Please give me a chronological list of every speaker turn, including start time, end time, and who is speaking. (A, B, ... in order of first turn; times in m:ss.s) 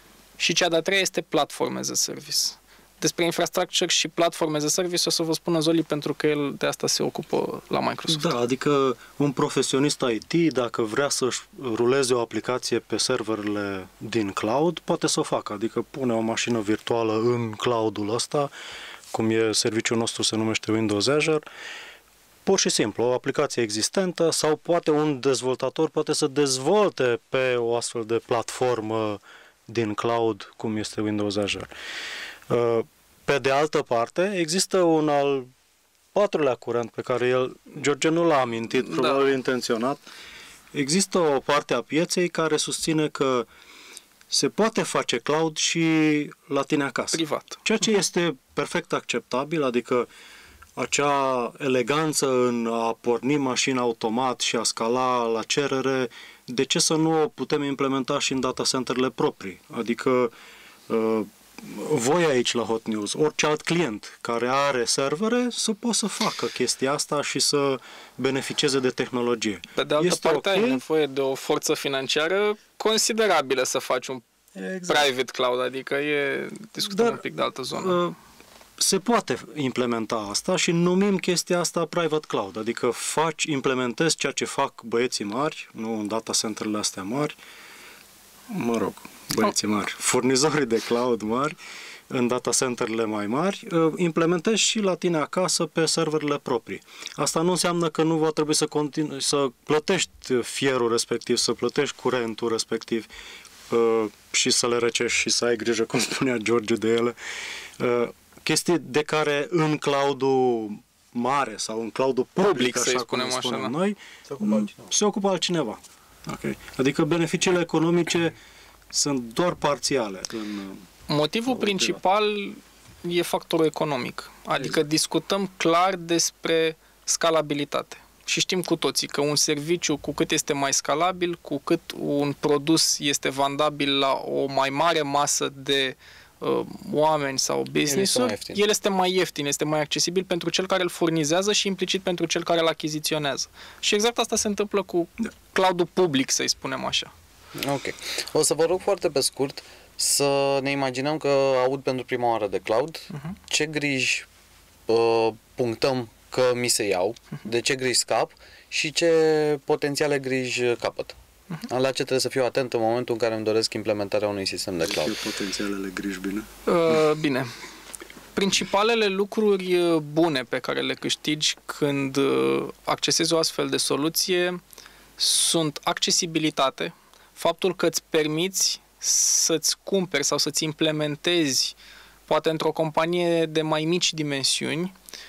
0:00.4-0:08.3 A
0:08.1-0:18.5 B
0:19.1-0:21.4 B
0:22.4-0:31.7 B
0:32.5-0:35.5 B
0:36.1-0:40.0 B
0:40.7-0:43.4 B
0:44.3-0:50.1 B
0:47.1-0:47.6 A
0:50.8-1:00.3 B
1:00.9-1:10.8 B
1:09.8-1:14.2 A
1:14.6-1:15.1 B
1:14.9-1:18.0 A
1:16.9-1:17.2 B
1:17.7-1:18.1 B
1:18.8-1:27.4 B
1:28.5-1:31.6 B
1:32.1-1:43.1 B
1:43.7-1:47.2 B
1:47.8-1:58.4 B
1:52.4-1:53.7 A
1:58.9-2:00.8 B
2:01.1-2:27.1 A
2:01.5-2:02.0 B
2:17.9-2:18.6 C
2:27.6-2:34.3 C
2:34.9-2:41.1 C
2:41.7-2:45.2 C
2:44.8-2:46.5 B
2:46.7-2:47.5 A
2:48.3-2:54.6 A
2:55.2-3:01.8 A
3:02.3-3:04.9 A